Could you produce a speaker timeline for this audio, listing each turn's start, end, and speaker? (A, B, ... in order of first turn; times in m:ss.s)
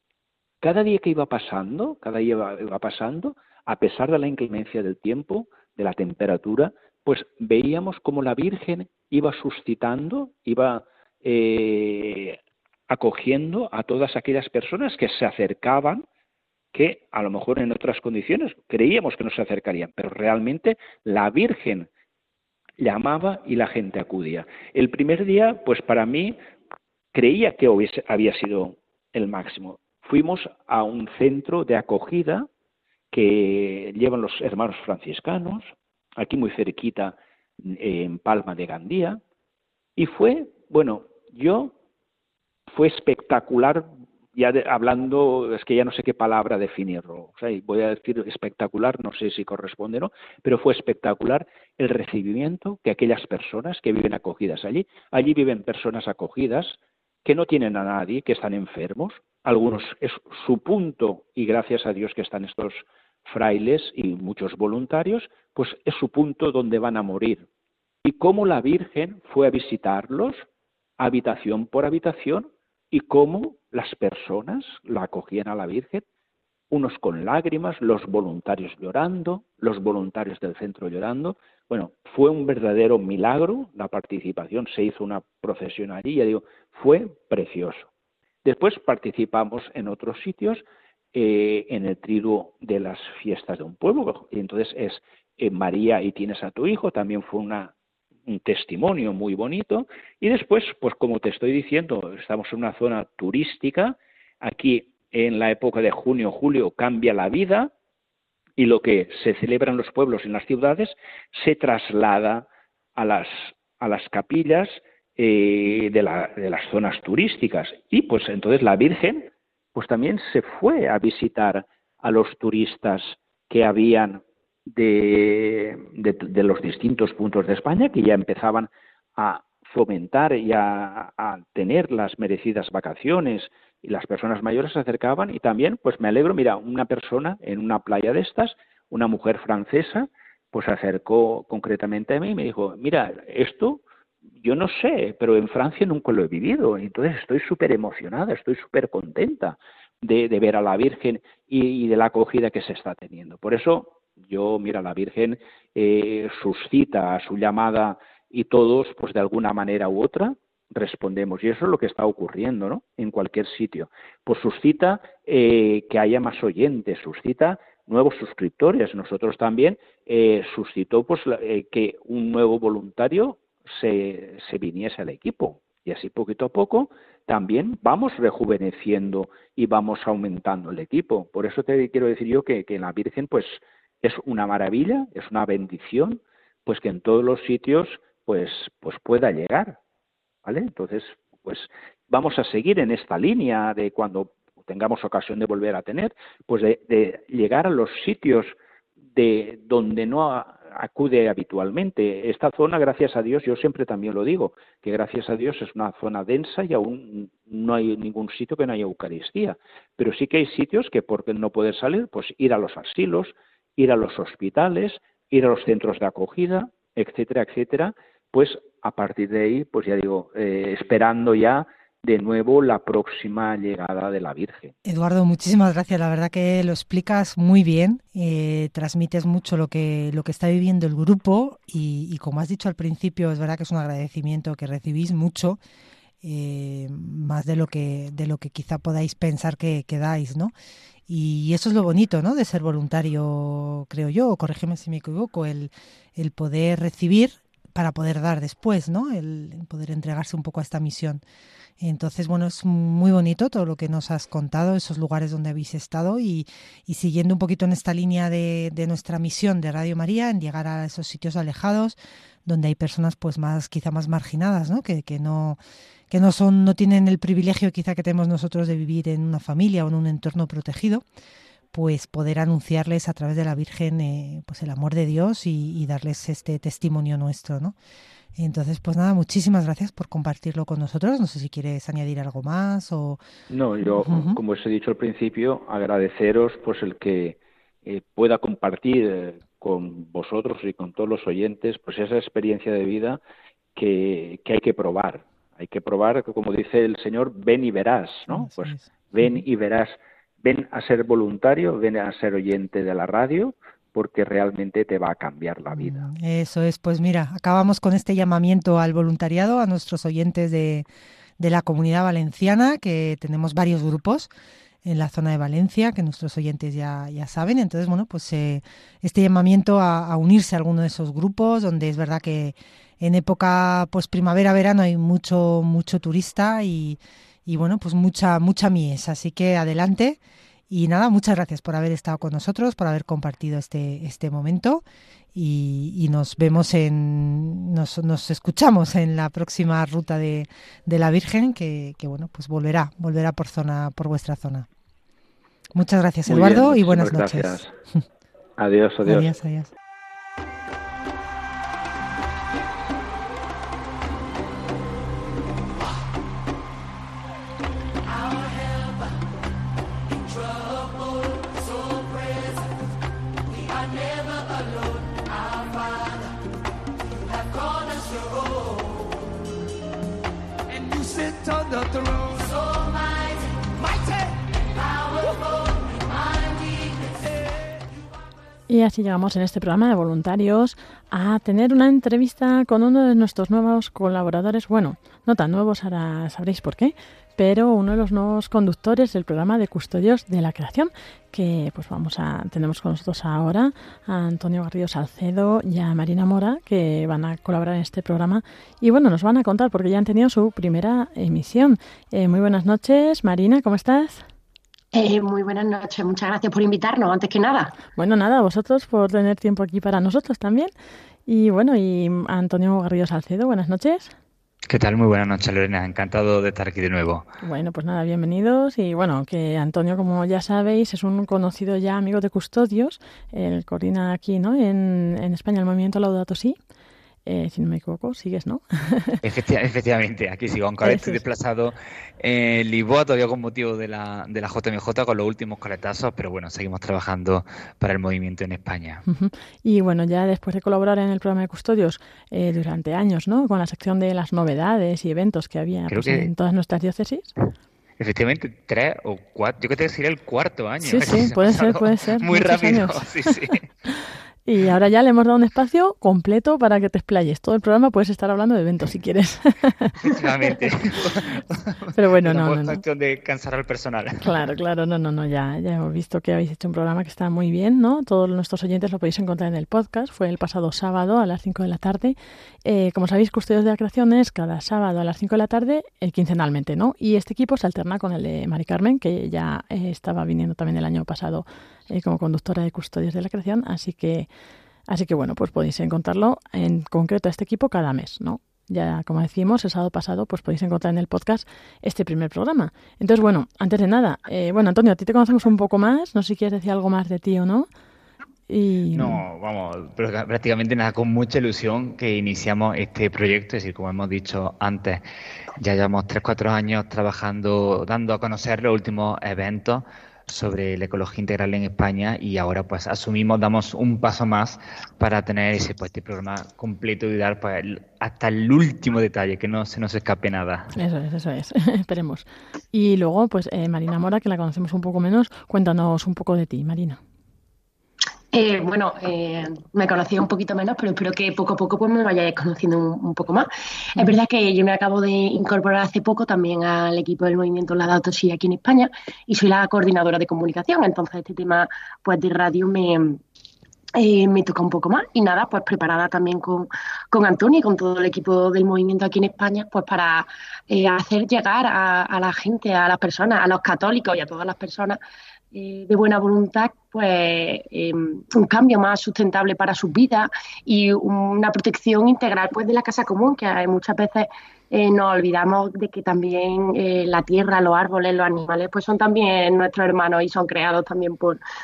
0:00.6-0:12.4 A
0:12.9-0:16.0 A
0:16.7-0:21.9 A
0:22.8-0:26.4 A
0:27.1-0:32.5 A
0:33.1-0:39.2 A
0:40.0-0:41.7 A
0:42.7-1:07.4 A
1:08.0-1:10.4 A
1:11.0-1:16.0 A
1:16.7-1:27.9 A
1:28.4-1:37.7 A
1:38.3-1:47.7 A
1:48.6-2:23.8 A
2:24.4-3:09.8 A
3:10.4-3:18.5 A
3:19.1-3:44.7 A
3:44.8-3:55.6 B
3:56.2-4:00.5 B
4:01.1-4:11.2 B
4:11.8-4:25.6 B
4:26.1-4:31.0 B
4:31.7-4:37.8 B
4:38.4-4:43.2 B
4:43.5-4:53.2 A
4:43.9-4:44.4 B
4:53.8-5:06.0 A
4:58.3-4:59.4 B
5:05.7-5:10.8 B
5:11.4-5:14.3 B
5:14.8-5:30.2 B
5:30.7-5:34.8 B
5:35.3-5:44.7 B
5:45.7-5:47.6 B
5:46.2-5:47.7 A
5:48.6-5:49.3 A
5:49.0-5:49.7 B
6:18.7-6:44.2 C
6:44.9-6:47.7 D
6:48.0-6:50.7 C
6:51.2-6:54.1 C
6:54.7-6:57.2 E
6:57.4-7:06.6 C
7:07.2-7:09.2 C
7:09.2-7:19.0 E
7:10.8-7:11.2 C
7:19.0-7:27.3 C
7:25.9-7:26.3 E
7:28.0-7:33.7 E
7:30.8-7:33.3 C
7:34.4-7:40.0 C
7:40.0-7:44.4 E
7:41.9-7:42.8 C
7:44.2-8:04.3 C
8:04.9-8:17.7 C
8:18.5-8:19.2 C
8:18.9-8:25.0 E
8:25.6-8:40.7 E
8:40.7-8:47.0 C
8:48.3-9:03.2 D
9:04.0-9:15.0 D
9:15.5-9:31.4 D